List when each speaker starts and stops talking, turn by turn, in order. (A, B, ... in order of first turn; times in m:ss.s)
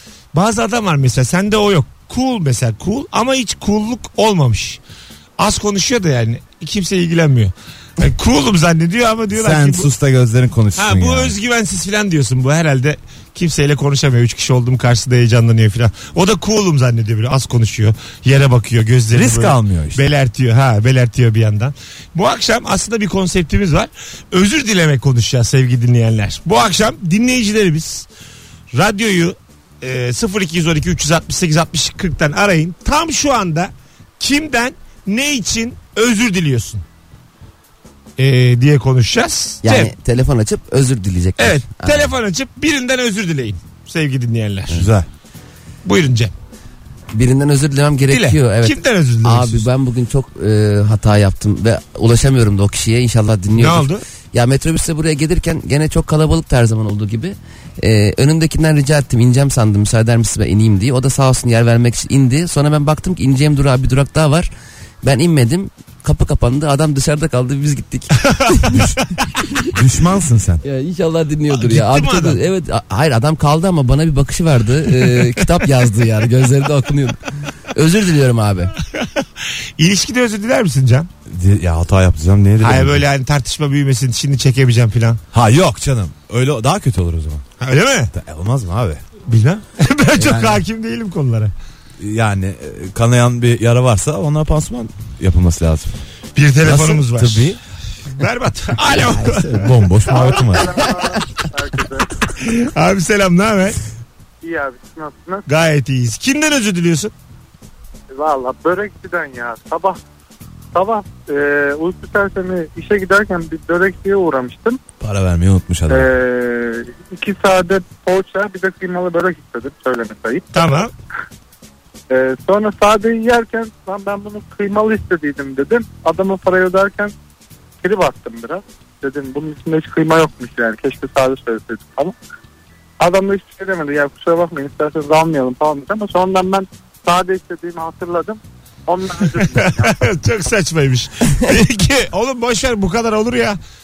0:00.3-0:04.8 A
0:05.4-0:09.9 A
0:09.3-0:11.4 B
0:10.8-0:28.1 A
0:19.1-0:20.0 B
0:28.7-0:36.8 A
0:38.2-0:39.9 A
0:39.6-0:42.1 C
0:41.4-0:44.9 A
0:44.7-0:45.1 B
0:45.8-0:46.3 A
0:47.1-1:04.5 C
0:48.1-0:49.6 A
0:53.6-0:54.0 A
1:05.0-1:08.8 C
1:08.2-1:08.8 A
1:09.7-1:10.6 B
1:10.6-1:18.7 C
1:11.5-1:12.4 A
1:19.8-1:21.1 A
1:21.3-1:23.1 B
1:22.6-1:25.2 A
1:25.3-1:27.4 B
1:27.6-1:28.1 A
1:28.1-1:29.0 B
1:29.3-1:31.5 A
1:30.2-1:30.6 B
1:32.0-1:35.9 B
1:36.4-1:37.6 A
1:36.6-1:37.6 B
1:38.1-1:39.7 A
1:39.0-1:40.8 B
1:40.1-1:42.1 D
1:42.4-1:43.8 A
1:44.4-1:45.4 D
1:45.5-1:47.1 A
1:48.1-1:50.0 D
1:50.7-1:54.8 D
1:55.0-1:56.1 B
1:55.9-2:00.7 D
2:00.5-2:00.9 A
2:02.1-2:07.1 D
2:07.8-2:12.2 D
2:13.0-2:19.9 D
2:19.4-2:23.6 A